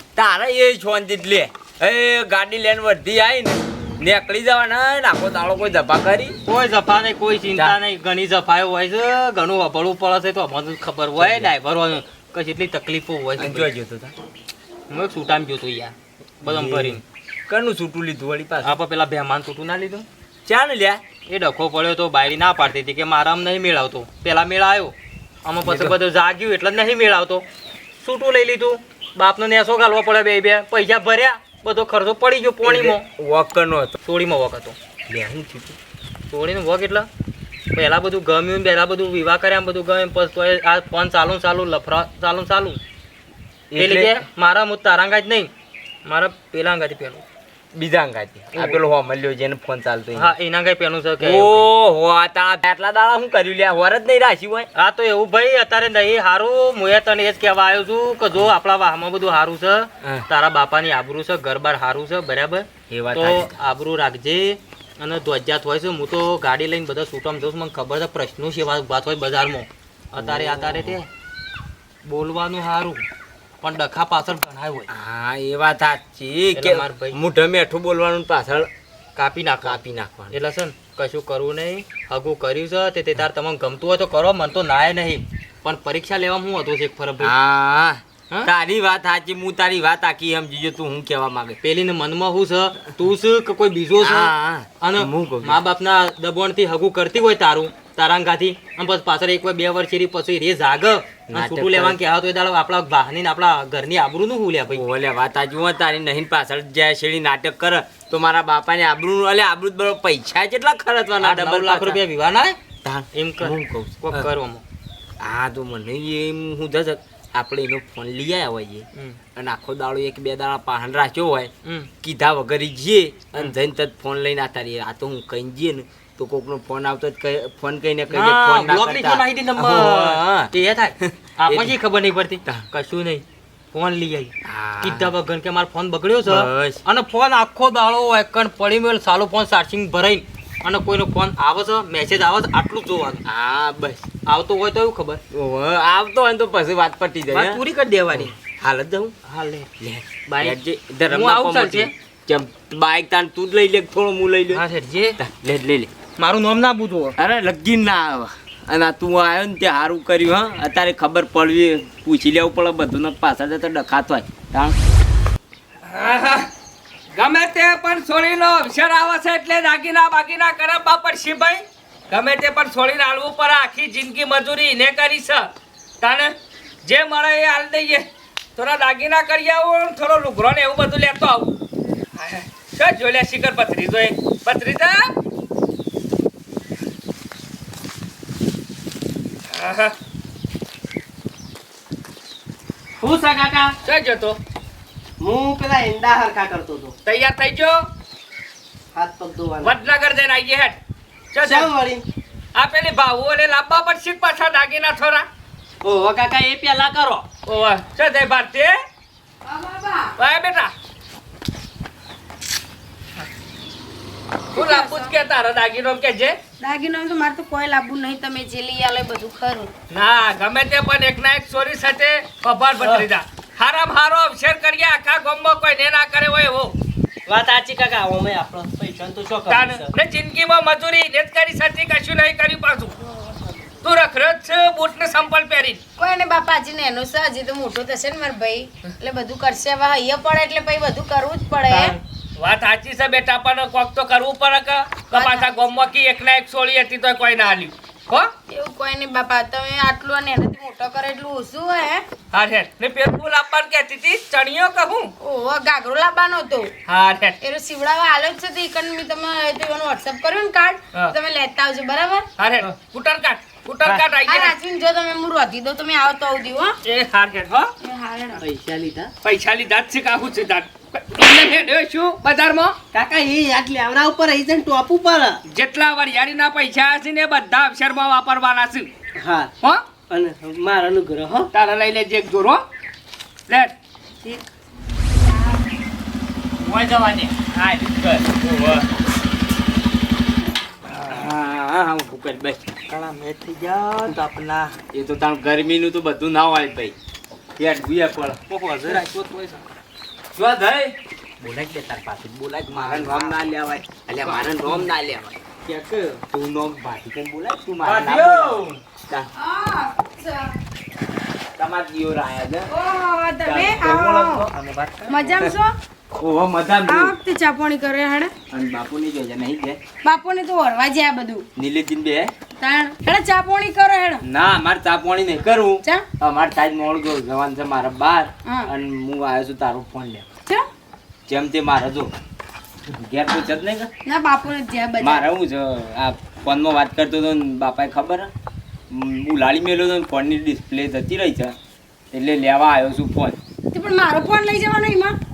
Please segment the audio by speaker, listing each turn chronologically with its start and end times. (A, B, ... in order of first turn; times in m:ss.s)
0:00.2-0:06.4 A
0:06.5-0:13.7 B
0:11.2-0:11.5 A
0:13.4-0:14.1 A
0:14.9-0:17.0 B
0:16.4-0:18.8 A
0:18.6-0:20.1 B
0:20.5-0:21.0 A
0:21.3-0:24.9 B
0:25.4-0:27.4 B
0:25.6-0:26.0 A
0:28.0-0:33.1 B
0:32.6-0:34.0 A
0:34.0-0:34.8 B
0:35.1-0:35.8 A
0:36.3-0:37.1 B
0:37.7-0:42.8 B
0:43.7-0:44.2 A
0:43.8-0:45.5 B
0:46.0-0:47.2 B
0:47.7-0:50.3 A
0:48.6-0:48.8 B
0:50.1-0:51.7 B
0:51.2-0:54.7 A
0:54.8-1:11.1 B
1:02.9-1:03.6 A
1:10.2-1:11.0 A
1:12.0-1:13.0 B
1:13.6-1:14.9 B
1:14.9-1:18.7 A
1:16.6-1:17.2 B
1:19.2-1:19.8 B
1:19.6-1:20.4 A
1:20.3-1:27.3 B
1:27.2-1:31.6 A
1:31.6-1:44.8 B
1:34.0-1:35.6 A
1:41.3-1:42.0 A
1:44.7-1:52.0 A
1:51.2-1:52.6 B
1:52.8-1:54.3 A
1:53.1-1:54.6 B
1:55.2-2:10.3 A
2:08.1-2:23.2 B
2:11.0-2:11.7 A
2:14.5-2:15.1 A
2:16.2-2:16.8 A
2:23.2-2:24.1 A
2:24.3-2:25.2 B
2:25.3-2:27.6 A
2:27.3-2:28.3 B
2:28.1-2:29.2 A
2:29.3-2:31.9 B
2:29.8-2:34.6 A
2:34.5-2:35.2 B
2:35.2-2:35.9 A
2:36.2-2:37.2 B
2:37.2-2:44.8 A
2:45.9-2:46.5 C
2:47.1-2:55.5 C
2:56.0-2:56.3 C
2:56.8-2:58.0 C
2:58.6-3:01.5 C
3:02.2-3:05.1 C
3:09.5-3:09.9 C
3:13.0-3:13.8 D
3:13.8-3:14.4 C
3:15.2-3:17.0 D
3:17.1-3:17.9 C
3:19.0-3:19.8 D
3:19.6-3:20.8 C
3:21.3-3:21.7 C
3:21.4-3:22.0 D
3:22.6-3:25.3 C
3:25.8-3:27.3 D
3:27.5-3:28.8 C
3:29.4-3:30.1 E
3:30.2-3:30.7 C
3:34.6-3:35.1 E
3:34.6-3:36.4 C
3:36.6-3:39.7 E
3:39.9-3:46.7 C
3:42.8-3:43.1 D
3:47.3-3:49.9 D
3:49.5-3:52.9 C
3:53.8-3:55.8 C
3:56.0-4:02.0 E
4:01.7-4:08.3 C
4:05.1-4:05.7 E
4:08.5-4:12.0 E
4:12.3-4:15.1 C
4:15.2-4:16.7 E
4:16.9-4:17.4 C
4:17.4-4:22.3 E
4:22.4-4:24.5 C
4:24.2-4:26.8 E
4:26.9-4:27.7 C
4:27.8-4:28.4 E
4:28.4-4:29.1 D
4:29.2-4:32.8 C
4:32.9-4:35.4 D
4:35.5-4:38.9 C
4:39.2-4:39.5 D
4:40.1-4:41.5 D
4:41.5-4:42.6 C
4:43.5-4:43.7 C
4:46.6-4:48.8 A
4:50.9-4:51.3 B
4:51.1-4:52.7 A
4:52.9-4:54.8 B
4:54.9-4:57.0 A
4:57.6-4:58.4 A
4:58.5-4:59.6 B
5:00.3-5:05.4 A
5:02.7-5:03.4 B
5:04.2-5:04.9 B
5:05.7-5:06.2 B
5:06.3-5:09.3 A
5:07.8-5:08.8 B
5:09.4-5:10.6 E
5:11.6-5:12.7 A
5:12.7-5:14.4 E
5:13.4-5:14.3 A
5:13.8-5:15.4 B
5:15.1-5:15.8 E
5:16.2-5:17.2 A
5:16.9-5:18.3 E
5:18.5-5:19.8 A
5:20.0-5:21.5 E
5:21.6-5:22.3 A
5:22.6-5:24.2 E
5:24.2-5:30.3 A
5:28.5-5:28.7 E
5:31.3-5:32.1 A
5:32.9-5:33.9 A
5:34.0-5:35.2 E
5:35.0-5:38.3 A
5:38.9-5:41.6 A
5:42.1-5:43.4 A
5:43.7-5:45.2 E